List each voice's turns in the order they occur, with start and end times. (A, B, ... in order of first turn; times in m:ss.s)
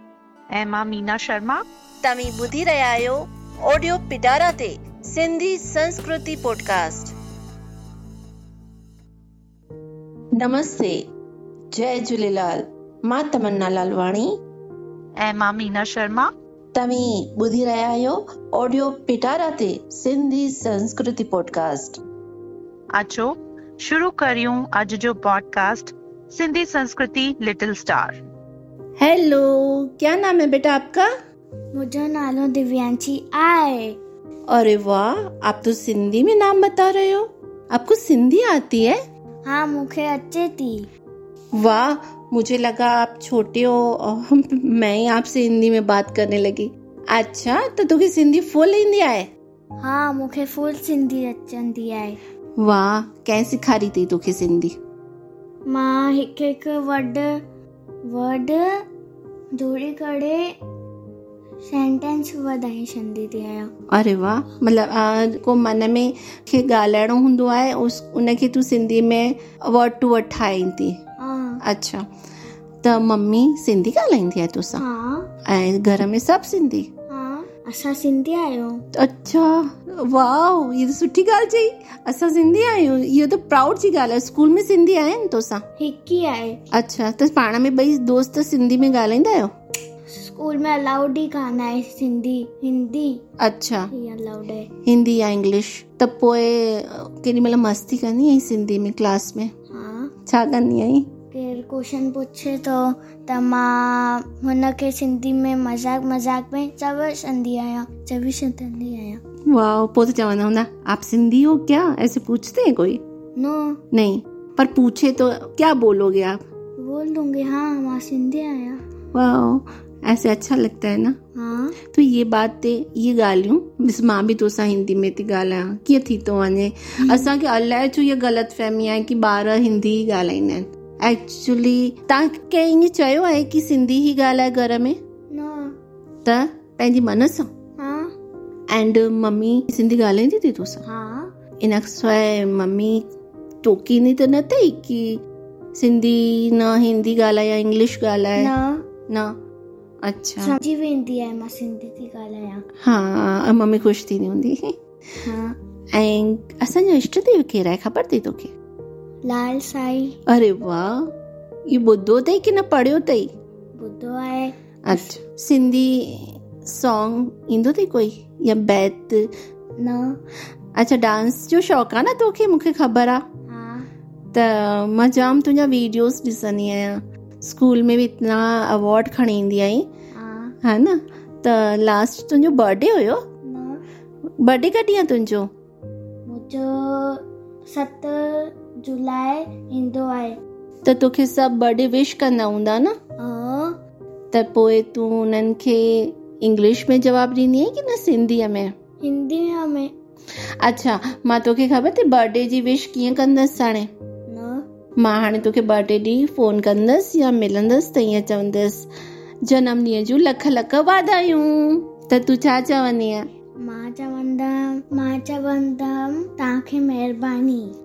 0:00.5-0:01.6 A
0:02.0-0:07.2 B
0:10.3-0:11.0 B
0:11.7-0:14.4 B
0:15.2-0:16.3 A
0:16.7-0:22.0 B
0:23.0-0:28.2 A
0:29.0-0:31.1 B
0:31.7-0:34.0 C
0:34.5-0:39.0 B
0:39.4-0:40.9 C
0:41.6-0:49.3 B
0:49.8-0:52.2 C
0:52.6-0:54.8 B
0:55.7-0:57.4 C
0:58.0-0:58.8 C
0:59.6-1:00.4 C
1:01.6-1:03.7 C
1:03.9-1:11.0 B
1:11.2-1:11.6 C
1:11.6-1:12.0 B
1:12.8-1:14.8 B
1:14.8-1:15.3 C
1:15.4-1:16.9 B
1:17.1-1:18.8 C
1:18.9-1:25.6 B
1:25.8-1:26.6 C
1:26.7-1:29.5 B
1:30.1-1:33.2 C
1:33.4-1:33.9 B
1:33.9-1:34.7 C
1:34.8-1:39.5 B
1:39.7-1:40.1 C
1:40.2-1:41.1 B
1:41.3-1:49.2 C
1:49.5-1:53.0 B
1:53.4-1:53.8 C
1:53.9-1:56.4 B
1:56.8-1:58.8 C
1:59.1-2:01.2 B
2:01.4-2:01.8 C
2:01.9-2:15.0 B
2:15.3-2:15.8 C
2:16.2-2:17.5 B
2:17.8-2:18.1 C
2:18.7-2:20.8 B
2:20.8-2:21.3 C
2:21.6-2:23.0 B
2:23.6-2:25.2 B
2:25.8-2:28.5 B
2:28.4-2:28.8 C
2:29.1-2:29.4 B
2:30.0-2:30.6 B
2:30.4-2:32.6 C
2:32.8-2:34.8 B
2:35.2-2:35.5 C
2:35.9-2:38.5 B
2:39.2-2:40.2 C
2:40.3-2:41.1 B
2:41.7-2:43.3 B
2:43.8-2:45.1 C
2:44.8-2:49.3 B
2:49.8-2:50.2 C
2:50.8-2:53.2 B
2:53.5-2:53.9 C
2:54.3-2:59.9 B
3:00.1-3:00.5 C
3:00.6-3:03.2 B
3:03.4-3:03.8 C
3:04.4-3:05.5 B
3:06.2-3:10.4 C
3:10.8-3:12.9 B
3:13.2-3:13.8 C
3:14.3-3:18.7 B
3:19.0-3:19.9 C
3:20.6-3:23.9 B
3:24.3-3:24.6 C
3:25.0-3:28.9 B
3:29.4-3:33.2 B
3:33.6-3:37.7 C